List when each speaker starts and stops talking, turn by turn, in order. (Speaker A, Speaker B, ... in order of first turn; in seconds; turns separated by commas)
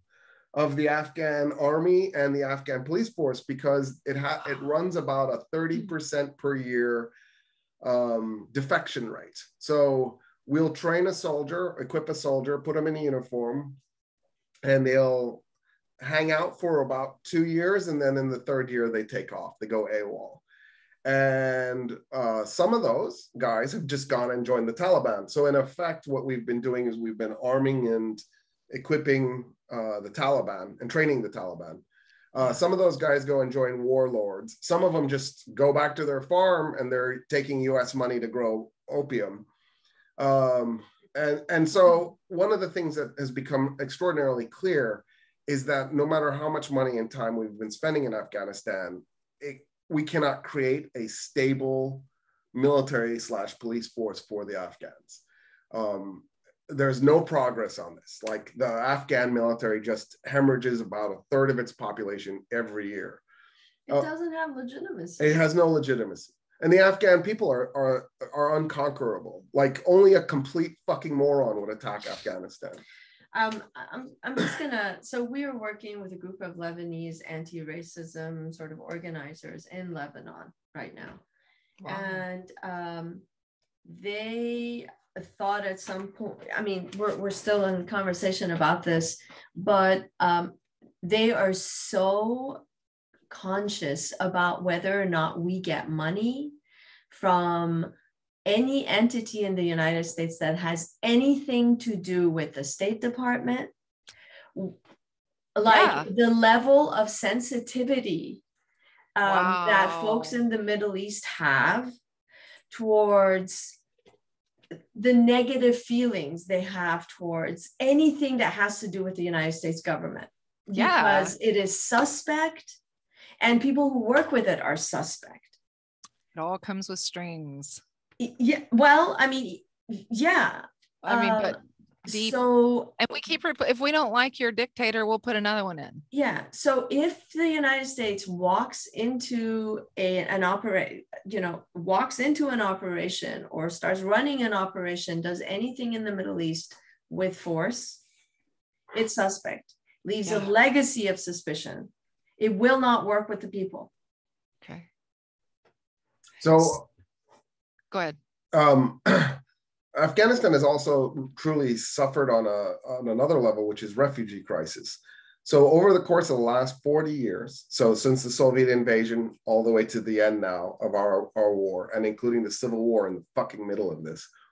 Speaker A: 0.5-7.1, Speaker A: 7.8-13.8, Speaker A: 14.6-15.4, Speaker A: 16.0-20.4, Speaker A: 21.1-39.5, Speaker A: 40.2-63.2, Speaker B: 63.9-65.4, Speaker A: 65.2-72.8, Speaker B: 73.3-81.2, Speaker C: 81.8-82.2, Speaker B: 81.9-83.2, Speaker B: 83.8-92.6, Speaker B: 93.3-96.6, Speaker B: 97.1-97.9, Speaker B: 98.5-103.7, Speaker B: 105.6-108.4, Speaker C: 105.7-106.1, Speaker B: 109.2-111.9, Speaker C: 109.2-110.4, Speaker B: 112.7-113.8, Speaker B: 115.0-122.8, Speaker C: 120.7-121.3, Speaker B: 123.4-125.5, Speaker C: 126.3-127.8, Speaker B: 128.2-132.9, Speaker C: 131.0-132.4, Speaker C: 133.0-136.0, Speaker B: 136.1-148.0, Speaker B: 148.9-153.9, Speaker C: 150.2-150.5, Speaker C: 154.6-154.9, Speaker A: 156.4-156.9, Speaker C: 157.9-158.2, Speaker A: 158.5-159.4, Speaker A: 159.9-174.3